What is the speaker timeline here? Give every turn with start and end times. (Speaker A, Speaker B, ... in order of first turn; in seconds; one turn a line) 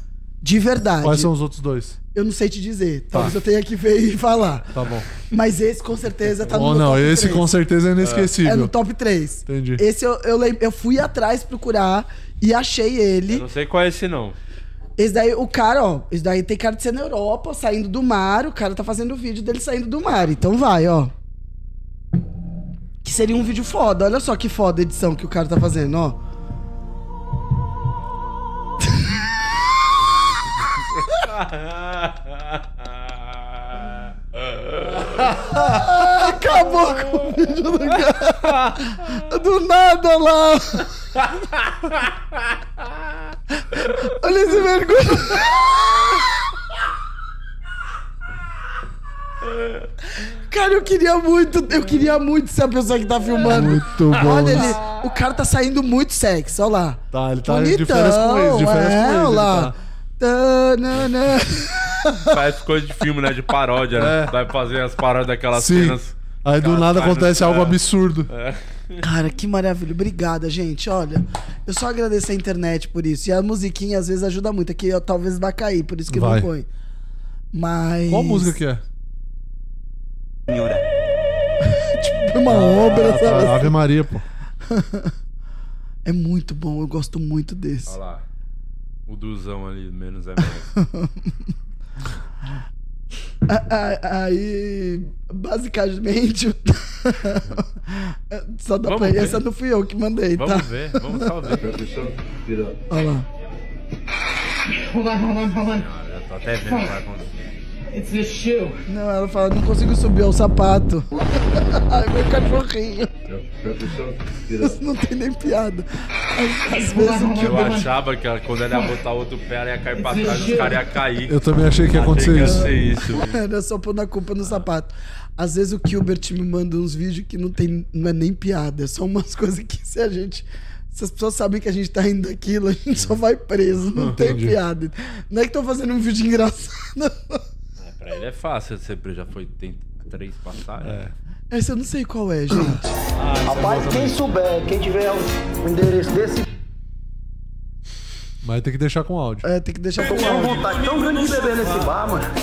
Speaker A: 0.4-1.3
Speaker B: 1.0-2.0
Speaker A: 2.1-4.7
Speaker B: 4.7-5.1
Speaker A: 5.3-7.5
Speaker B: 6.5-8.7
Speaker C: 8.0-8.3
Speaker A: 8.4-13.4
Speaker B: 9.5-9.8
Speaker C: 13.3-14.4
Speaker A: 15.0-21.1
Speaker A: 23.0-26.2
Speaker C: 31.4-32.1
Speaker C: 34.5-35.0
Speaker A: 35.5-40.9
Speaker A: 44.0-46.1
Speaker A: 50.5-62.3
Speaker B: 53.4-54.8
Speaker B: 57.1-59.8
Speaker C: 62.2-69.0
Speaker B: 64.0-64.4
Speaker B: 65.5-68.3
Speaker A: 69.0-76.7
Speaker B: 76.1-76.5
Speaker A: 77.5-78.6
Speaker B: 78.1-78.8
Speaker A: 81.8-83.8
Speaker B: 82.5-84.3
Speaker A: 84.7-85.1
Speaker A: 86.0-88.0
Speaker C: 87.9-88.2
Speaker C: 89.1-90.7
Speaker A: 90.8-91.1
Speaker A: 93.5-100.7
Speaker C: 98.8-99.4
Speaker C: 100.3-101.8
Speaker A: 102.9-103.3
Speaker D: 104.9-105.9
Speaker C: 105.7-107.3
Speaker D: 106.7-107.0
Speaker D: 107.9-108.8
Speaker A: 108.9-113.1
Speaker A: 114.6-117.5
Speaker D: 116.8-117.9
Speaker C: 117.3-123.4
Speaker D: 120.0-120.8
Speaker B: 121.3-122.7
Speaker A: 122.4-137.4
Speaker B: 133.9-134.6
Speaker C: 137.8-141.0
Speaker B: 140.8-141.1
Speaker A: 141.5-142.9
Speaker B: 143.2-144.2
Speaker E: 143.4-146.4
Speaker B: 148.4-149.5
Speaker A: 149.4-150.6
Speaker E: 150.0-152.3